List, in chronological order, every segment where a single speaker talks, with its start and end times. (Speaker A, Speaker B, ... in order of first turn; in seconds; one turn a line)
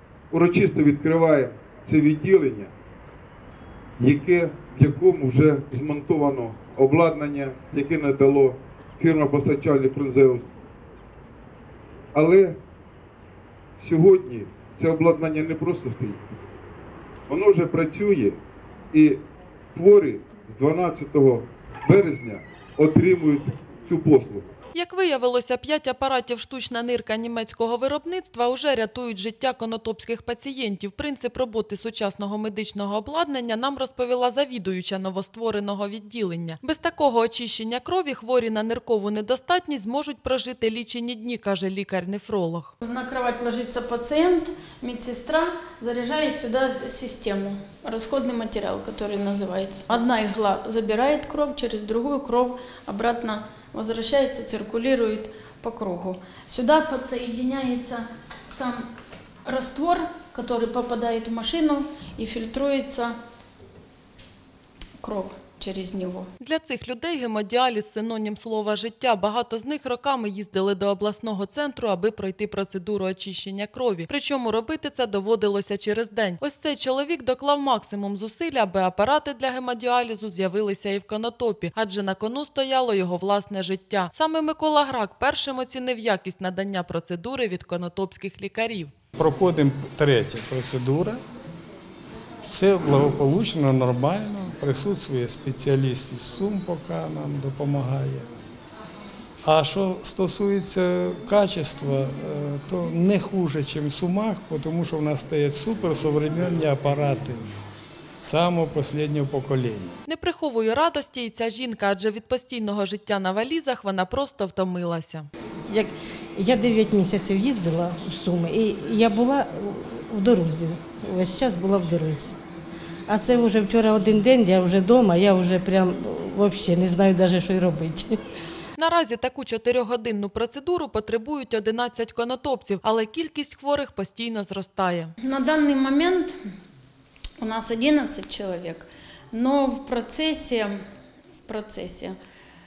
Speaker A: 0.3-2.7
Speaker A: 4.0-10.5
Speaker A: 12.1-12.6
Speaker A: 13.8-16.2
Speaker A: 17.3-18.4
Speaker A: 18.9-19.2
Speaker A: 19.7-24.5
Speaker B: 24.7-42.7
Speaker C: 42.8-58.9
Speaker C: 59.4-63.1
Speaker C: 65.0-66.3
Speaker B: 66.4-88.9
Speaker D: 89.2-91.2
Speaker D: 92.5-98.3
Speaker D: 99.4-107.5
Speaker D: 108.2-110.0
Speaker B: 110.0-115.3
Speaker E: 115.7-122.4
Speaker E: 123.1-128.2
Speaker B: 128.8-135.1
Speaker C: 135.2-136.4
Speaker C: 137.4-140.8
Speaker C: 141.4-142.2